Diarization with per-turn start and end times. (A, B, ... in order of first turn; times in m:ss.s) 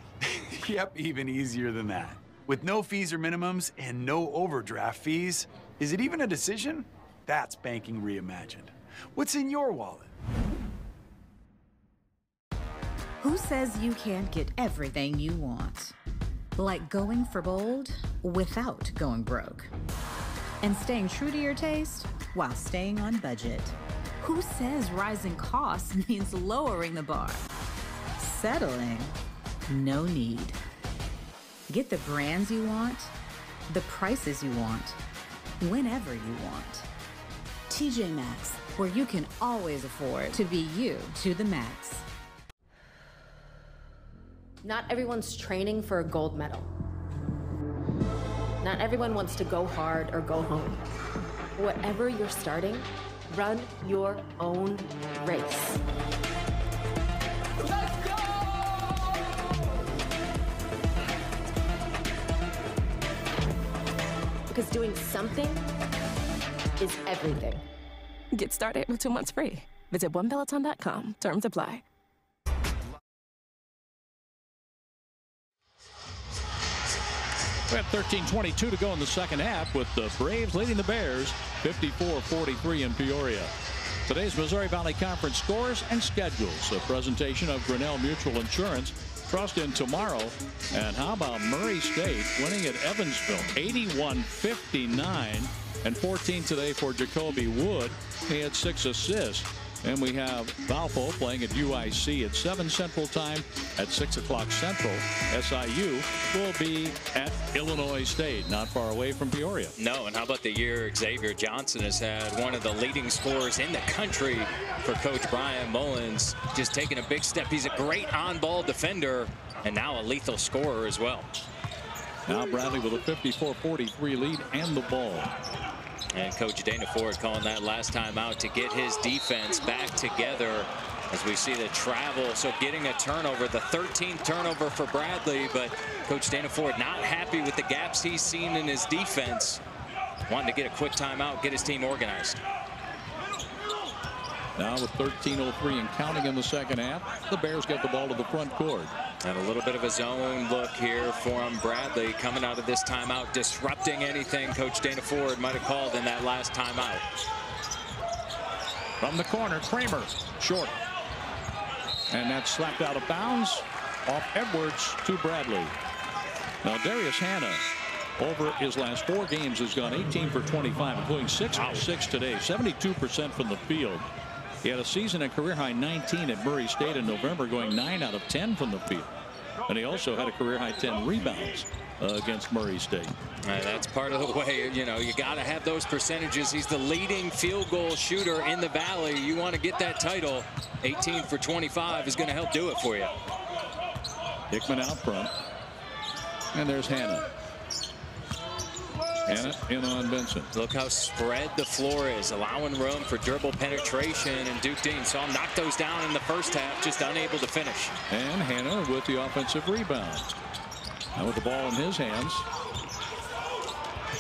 0:00.3-0:10.1 A
0:13.2-0:15.9 B
0:16.6-0:19.7 B
0:20.6-0:27.4 B
0:28.2-0:29.1 B
0:29.7-0:30.6 B
0:31.7-0:33.1 B
0:33.7-0:35.0 B
0:35.6-0:36.9 B
0:37.7-0:42.0 B
0:44.6-0:46.7 C
0:48.6-0:50.8 C
0:51.6-0:55.8 C
1:04.5-1:05.6 C
1:06.8-1:07.6 C
1:08.3-1:11.8 D
1:17.7-1:23.5 E
1:24.1-1:49.7 E
1:49.8-2:01.3 F
2:02.3-2:05.3 E
2:06.1-2:19.6 F
2:20.3-2:22.4 F
2:24.6-2:28.9 E
2:29.2-2:37.0 F
2:39.0-2:40.7 E
2:42.1-2:45.7 E
2:46.6-2:47.6 E
2:48.2-2:54.0 E
2:54.6-2:59.1 E
2:59.7-3:03.1 E
3:03.4-3:13.1 F
3:14.5-3:15.3 E
3:16.5-3:17.3 E
3:19.3-3:20.5 E
3:20.5-3:27.9 F
3:28.1-3:30.3 E
3:31.2-3:32.4 E